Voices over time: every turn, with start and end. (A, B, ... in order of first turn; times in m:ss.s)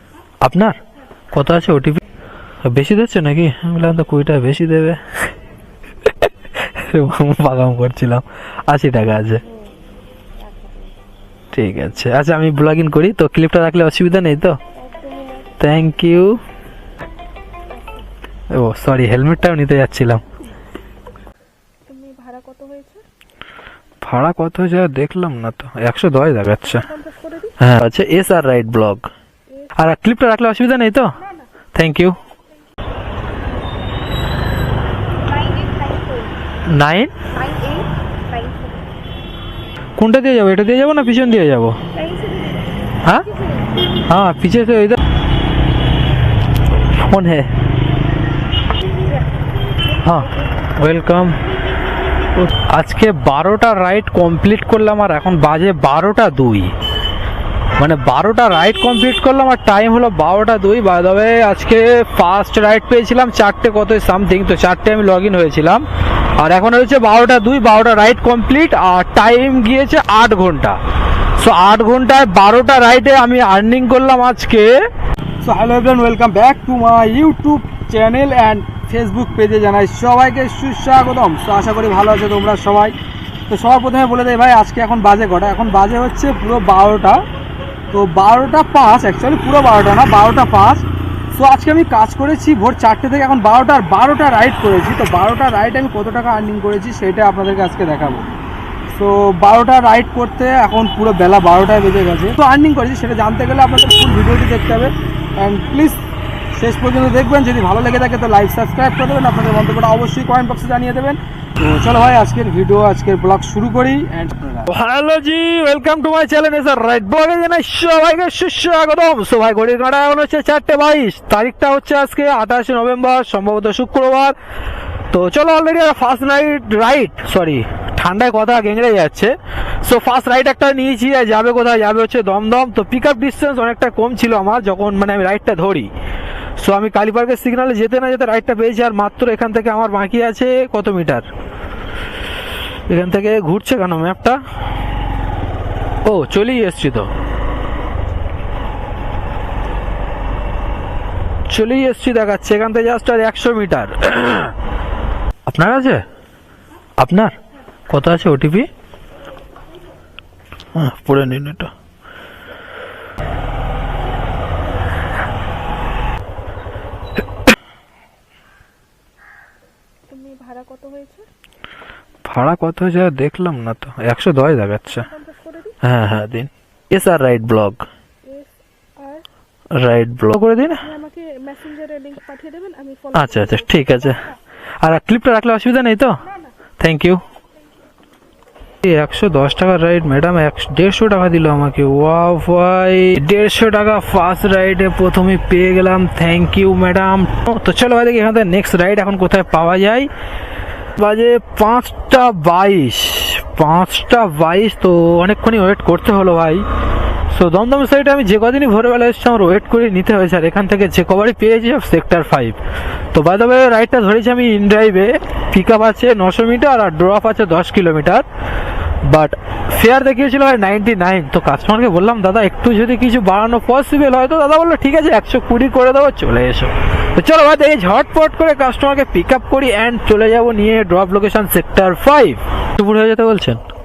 0:00.4-0:00.8 A
0:01.3-0:02.0 A
0:02.6-0:05.0 A
0:06.1-0:09.4 A
0:09.4-0:09.7 B
0:10.4-0:11.0 B
0:11.5-0:14.6 A
0:14.8-0:15.5 B
0:15.6-0:16.4 A
0:17.7-0:18.0 B
0:18.5-0:20.2 A
0:21.9-0:23.0 B
0:24.0-0:27.0 A
0:26.9-0:27.5 B
0:27.6-0:29.1 A
0:29.8-0:31.1 A
0:31.7-0:32.2 A
0:35.2-0:36.4 B
0:36.7-0:37.1 A
0:37.3-0:38.9 B
0:40.0-0:41.8 A
0:41.9-0:43.8 B
0:44.0-0:45.0 A
0:46.9-0:47.5 A
0:50.0-0:51.4 A
0:52.3-0:56.7 A
0:57.8-1:05.8 A
1:06.4-1:10.8 A
1:11.4-1:14.7 A
1:15.4-1:22.9 C
1:23.5-1:27.2 C
1:27.9-1:38.2 C
1:38.9-1:46.0 C
1:46.6-1:54.7 C
1:54.7-2:04.4 A
2:05.1-2:15.9 A
2:16.6-2:21.3 A
2:22.9-2:24.4 A
2:26.0-2:27.1 A
2:31.5-2:34.5 A
2:35.5-2:36.0 A
2:37.0-2:37.4 A
2:37.9-2:38.7 A
2:40.7-2:41.7 A
2:50.1-2:51.3 B
2:52.2-2:55.1 A
2:55.1-2:55.8 B
2:55.8-2:57.8 A
2:58.2-2:59.2 B
2:59.8-3:00.9 A
3:00.9-3:03.1 B
3:03.1-3:04.3 A
3:04.8-3:06.2 A
3:06.8-3:07.2 A
3:08.8-3:20.1 A
3:21.0-3:26.6 A
3:27.3-3:32.6 A
3:33.1-3:38.2 A
3:39.0-3:53.6 A